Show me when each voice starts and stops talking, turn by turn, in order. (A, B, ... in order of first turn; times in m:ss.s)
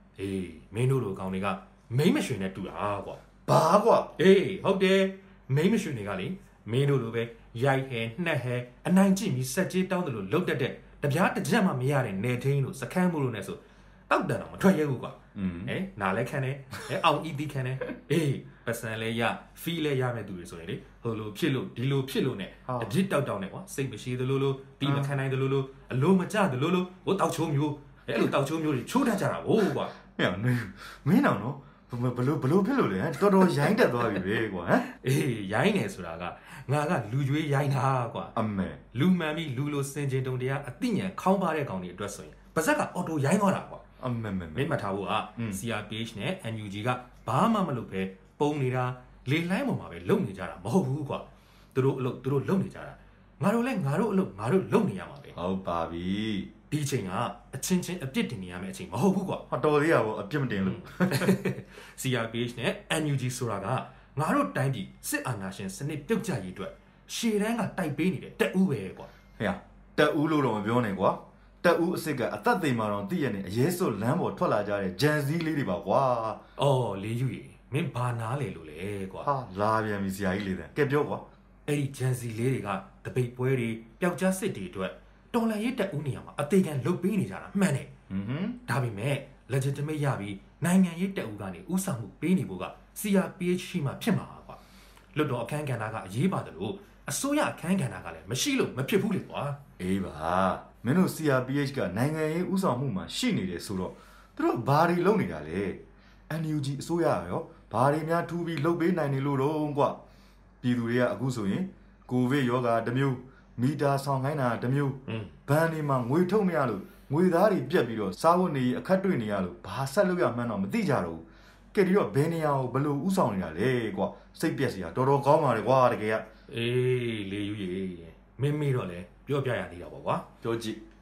0:00.2-0:03.2 A
0:03.5-0:04.2 B
0:04.2-0:30.0 A
0:15.4-0:15.8 B
0:22.7-0:23.0 B
0:24.8-0:25.2 B
0:30.1-0:34.9 B
0:34.9-0:38.4 A
0:38.4-0:38.8 B
0:38.9-0:43.8 A
0:44.0-0:44.7 B
0:44.5-0:55.4 A
0:45.4-0:45.6 B
0:55.4-0:56.5 B
0:56.7-0:59.5 A
0:59.5-1:01.4 B
1:00.6-1:09.1 A
1:09.4-1:16.4 B
1:16.6-1:19.3 A
1:19.2-1:21.2 B
1:21.7-1:27.9 A
1:28.1-1:28.6 B
1:28.7-1:34.6 A
1:35.2-1:39.6 A
1:39.8-1:50.0 B
1:50.6-2:06.2 B
1:55.1-1:55.4 A
2:06.5-2:10.3 A
2:10.4-2:10.8 B